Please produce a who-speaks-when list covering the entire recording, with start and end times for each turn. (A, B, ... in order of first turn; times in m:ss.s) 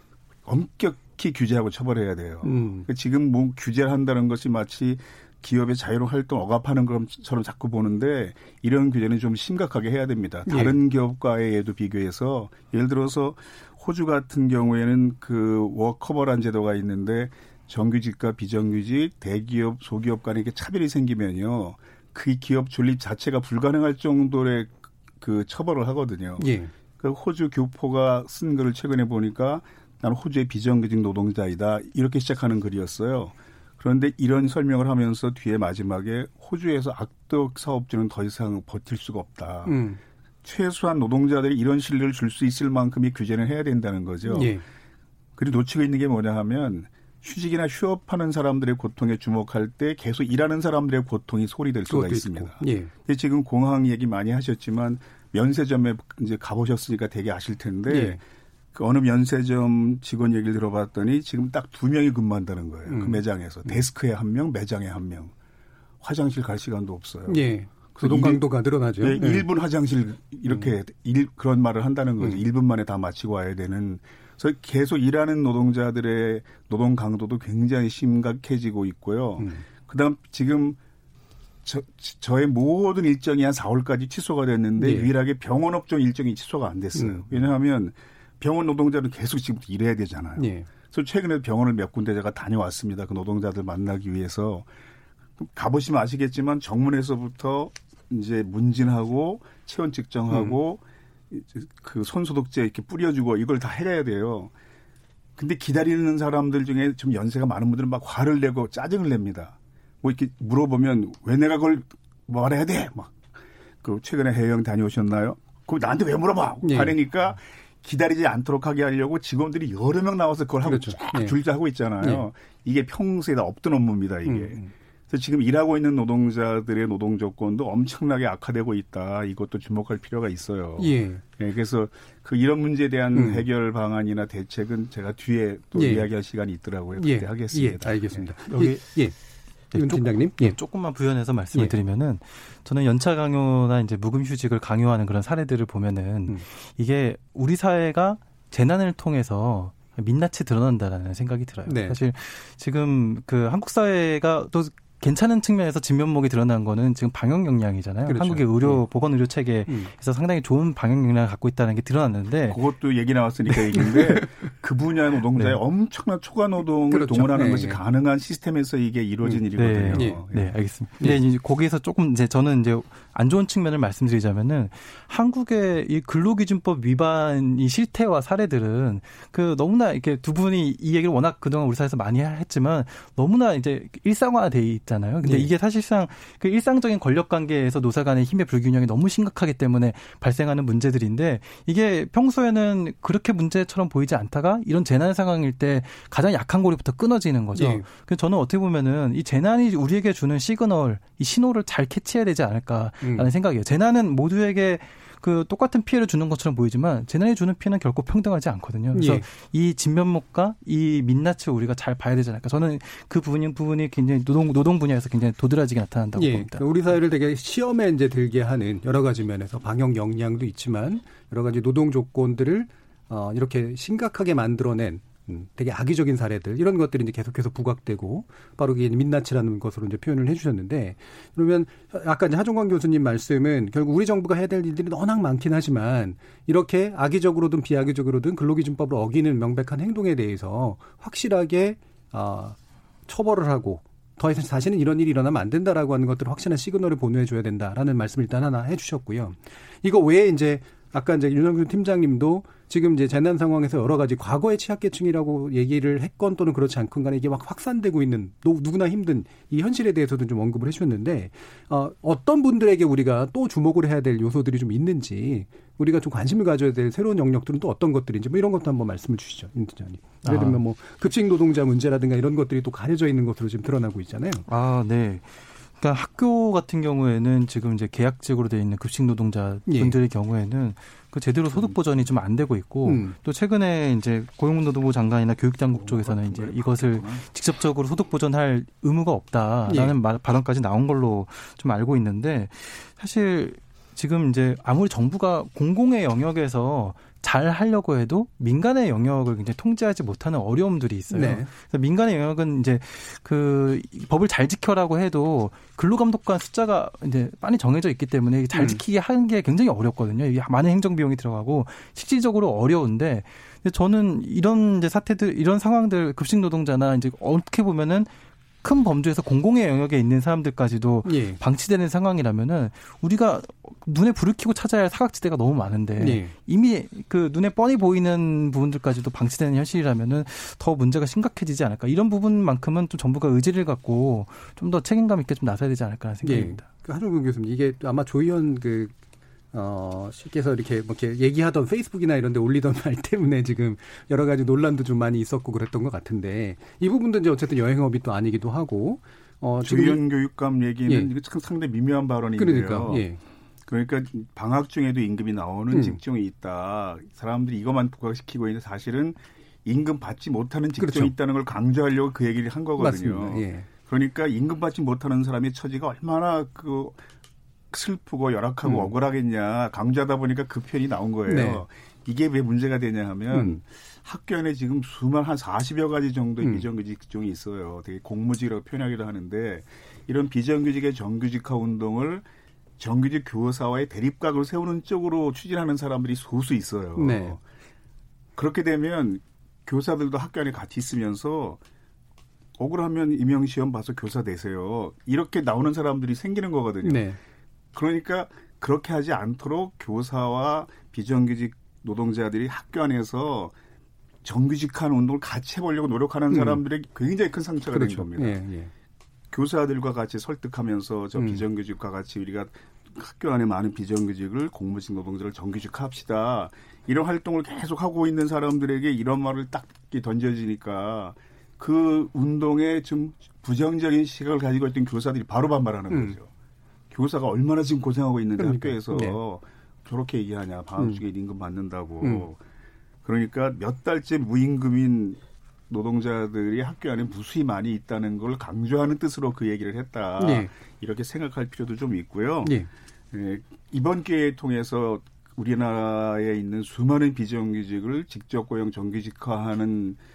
0:00.4-0:39.8 A
0:02.4-0:02.9 B
0:10.5-0:10.8 B
0:26.4-0:26.7 B
0:39.7-0:40.0 B
0:40.4-0:44.6 A
0:44.3-0:44.6 B
0:45.4-0:58.2 A
0:51.9-0:52.9 B
0:57.9-0:58.2 B
0:58.7-1:05.3 A
1:02.9-1:03.2 B
1:06.0-1:08.4 A
1:07.3-1:09.5 B
1:09.0-1:20.8 A
1:19.4-1:19.6 B
1:21.6-1:34.7 A
1:24.8-1:25.1 B
1:27.0-1:27.3 B
1:30.4-1:30.7 B
1:35.4-1:44.5 A
1:40.3-1:40.6 B
1:45.4-1:53.3 A
1:53.8-2:18.3 A
1:56.6-1:57.0 B
2:00.6-2:01.4 B
2:02.0-2:02.3 B
2:04.2-2:04.7 B
2:10.8-2:11.2 B
2:13.1-2:13.4 B
2:15.7-2:16.1 B
2:17.0-2:19.2 B
2:18.5-2:19.0 C
2:19.7-2:42.6 C
2:19.7-2:20.6 B
2:31.7-2:32.0 B
2:38.1-2:38.8 B
2:42.5-2:50.6 A
2:43.7-2:44.2 C
2:46.9-2:47.8 B
2:49.6-3:36.6 C
2:49.9-2:50.2 B
3:05.2-3:05.5 B
3:17.6-3:17.8 B
3:23.0-3:23.3 B
3:28.9-3:29.2 B
3:36.2-4:34.4 B
4:30.2-4:30.6 C
4:34.5-5:18.1 C
4:39.7-4:40.0 B
4:41.5-4:41.8 A
4:42.8-4:43.2 B
4:45.7-4:47.2 A
4:49.7-4:49.9 B
5:01.1-5:01.5 B
5:08.5-5:08.8 B
5:18.6-5:36.6 C
5:21.0-5:21.4 B
5:26.0-5:26.3 B
5:36.2-5:38.9 B
5:39.5-5:50.0 B
5:49.6-5:53.1 A
5:52.4-5:53.2 B
5:53.7-6:07.0 A
5:55.7-5:56.0 B
6:00.8-6:01.1 B
6:02.8-6:03.7 B
6:07.7-6:22.2 A
6:08.6-6:08.9 B
6:11.3-6:11.6 B
6:13.3-6:13.6 B
6:22.8-6:27.4 A
6:27.0-6:27.4 B
6:28.4-6:31.6 A
6:32.6-6:37.1 A
6:36.8-6:37.2 B
6:37.7-6:43.6 A
6:44.2-6:48.4 A
6:46.3-6:46.6 B
6:47.7-6:48.7 B
6:49.3-7:06.3 A
6:51.2-6:51.4 B
7:05.9-7:06.2 B
7:06.9-7:12.4 A
7:08.4-7:09.2 B
7:13.0-7:22.6 A
7:20.2-7:20.5 B
7:22.4-7:22.7 B
7:23.1-7:30.0 A